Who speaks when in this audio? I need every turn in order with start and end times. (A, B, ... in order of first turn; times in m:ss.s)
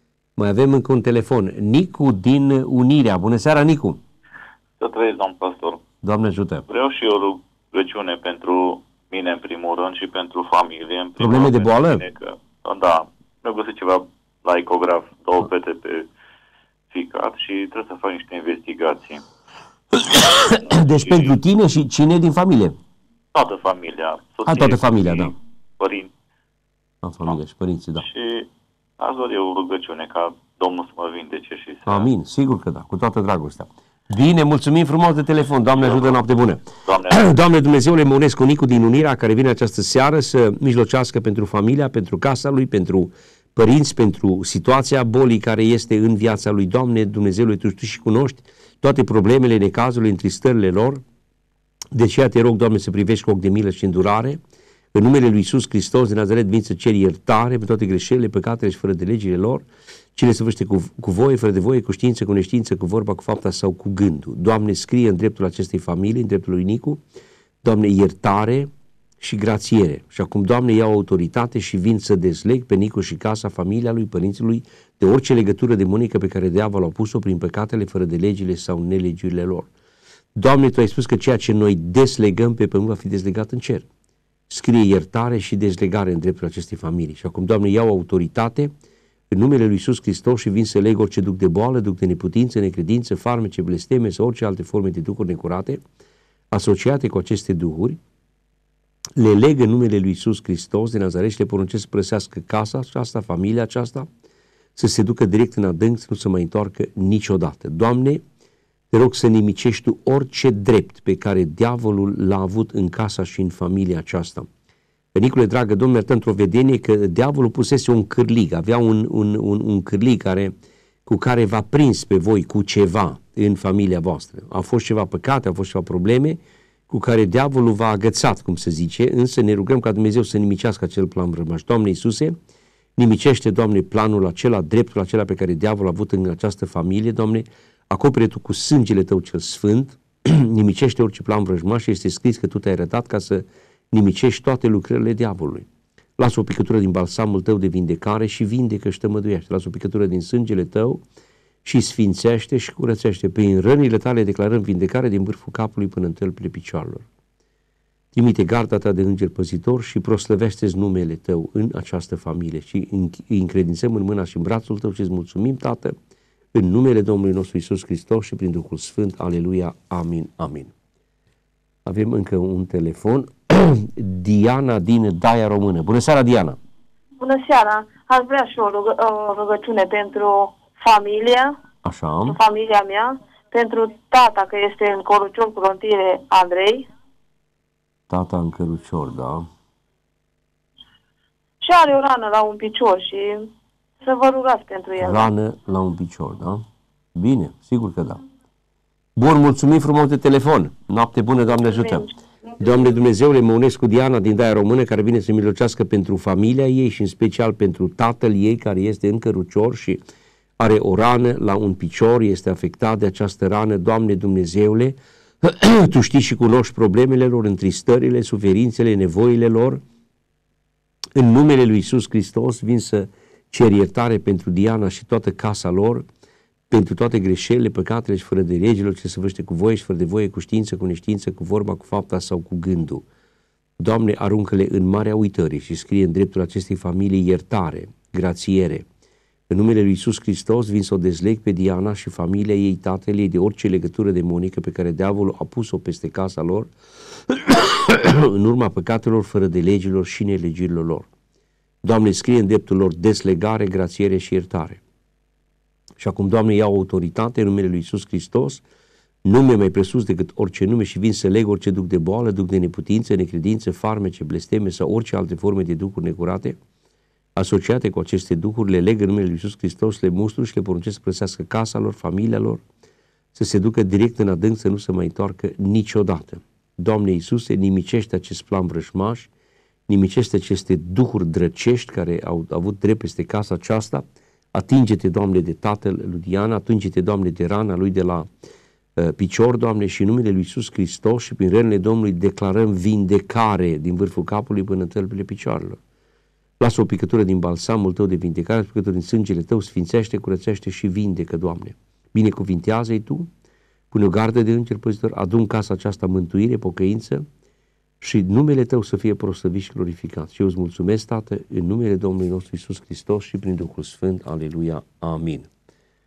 0:00.4-0:04.0 A
0:04.8-0:05.8 B
0:06.0-0:06.7 A
0:06.7-0:16.1 B
0:11.2-0:12.0 A
0:16.9-0:19.2 B
0:20.0-0:22.8 A
0:20.5-0:21.3 B
0:23.4-0:26.1 B
0:24.5-0:25.4 A
0:27.0-0:28.1 A
0:28.0-0:28.5 B
0:29.0-0:32.1 B
0:31.9-0:51.0 A
0:35.8-0:36.2 B
0:36.8-0:37.3 B
0:51.9-0:54.4 A
0:54.9-1:07.0 A
1:07.6-1:08.7 A
1:09.2-1:19.7 A
1:20.4-1:23.9 A
1:24.5-1:28.7 A
1:29.3-1:35.8 A
1:36.5-1:38.0 A
1:39.2-1:44.1 A
1:44.8-1:48.2 A
1:48.9-1:54.5 A
1:55.2-2:00.5 A
2:01.1-2:06.4 A
2:06.9-2:12.4 A
2:13.0-2:25.7 A
2:26.2-2:31.0 A
2:31.6-2:37.1 A
2:38.1-2:46.0 A
2:46.5-2:50.7 A
2:51.9-2:56.6 A
2:57.2-3:01.6 C
3:01.8-3:02.4 A
3:02.2-3:06.9 C
3:08.1-3:09.5 A
3:11.6-3:13.5 C
3:14.0-3:15.3 C
3:15.0-3:16.6 A
3:17.2-3:18.2 A
3:19.2-3:22.1 A
3:21.8-3:22.1 C
3:22.6-3:30.0 A
3:30.6-3:39.8 A
3:41.2-3:46.1 A
3:46.7-3:53.0 A
3:53.8-3:58.9 A
3:59.5-4:06.7 A
4:07.3-4:11.1 A
4:11.8-4:14.8 A
4:16.0-4:18.6 A
4:19.2-4:26.6 A
4:27.4-4:32.6 A
4:33.4-4:39.3 A
4:39.9-4:48.3 A
4:49.0-4:55.8 A
4:56.6-5:03.3 A
5:03.9-5:07.3 A
5:08.0-5:15.5 A